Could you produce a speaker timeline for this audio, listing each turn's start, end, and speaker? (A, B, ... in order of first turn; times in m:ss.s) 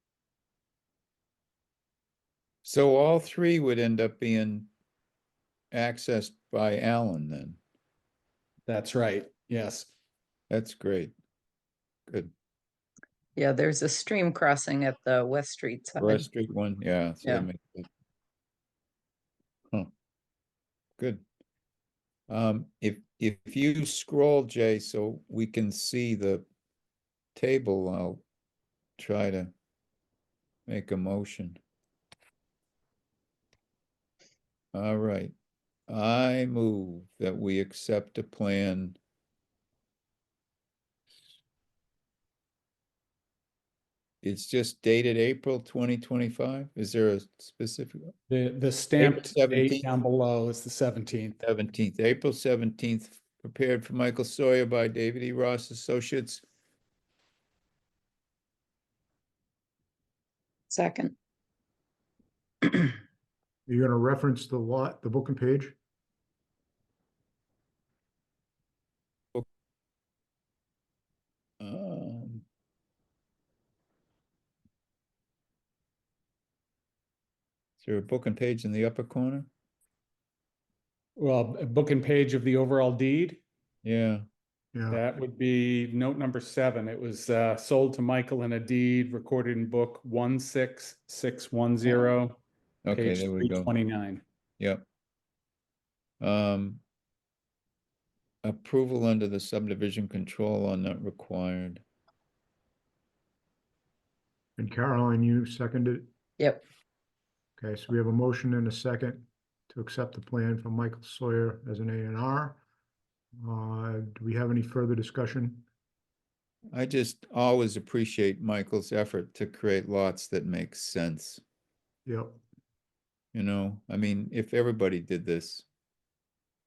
0:02.6-0:04.7 A
0:05.7-0:07.6 A
0:08.7-0:09.9 B
0:10.5-0:11.1 A
0:13.4-0:16.3 C
0:16.0-0:17.9 A
0:21.0-0:21.2 A
0:22.3-0:26.4 A
0:27.4-0:28.2 A
0:29.0-0:29.5 A
0:30.7-0:31.6 A
0:34.7-0:35.3 A
0:35.9-0:39.0 A
0:44.2-0:48.1 A
0:48.3-0:51.4 B
0:49.0-0:49.9 A
0:51.4-0:56.4 A
1:00.7-1:01.1 C
1:03.7-1:05.7 D
1:11.6-1:12.4 A
1:17.8-1:19.5 A
1:21.2-1:23.4 B
1:23.8-1:24.2 A
1:24.7-1:25.0 D
1:24.9-1:34.2 B
1:32.8-1:33.7 A
1:34.6-1:34.8 A
1:36.2-1:36.8 A
1:38.4-1:41.8 A
1:44.6-1:46.1 D
1:47.6-1:52.6 D
1:53.4-1:55.6 D
1:56.7-2:01.4 A
2:02.0-2:02.4 D
2:03.3-2:05.6 A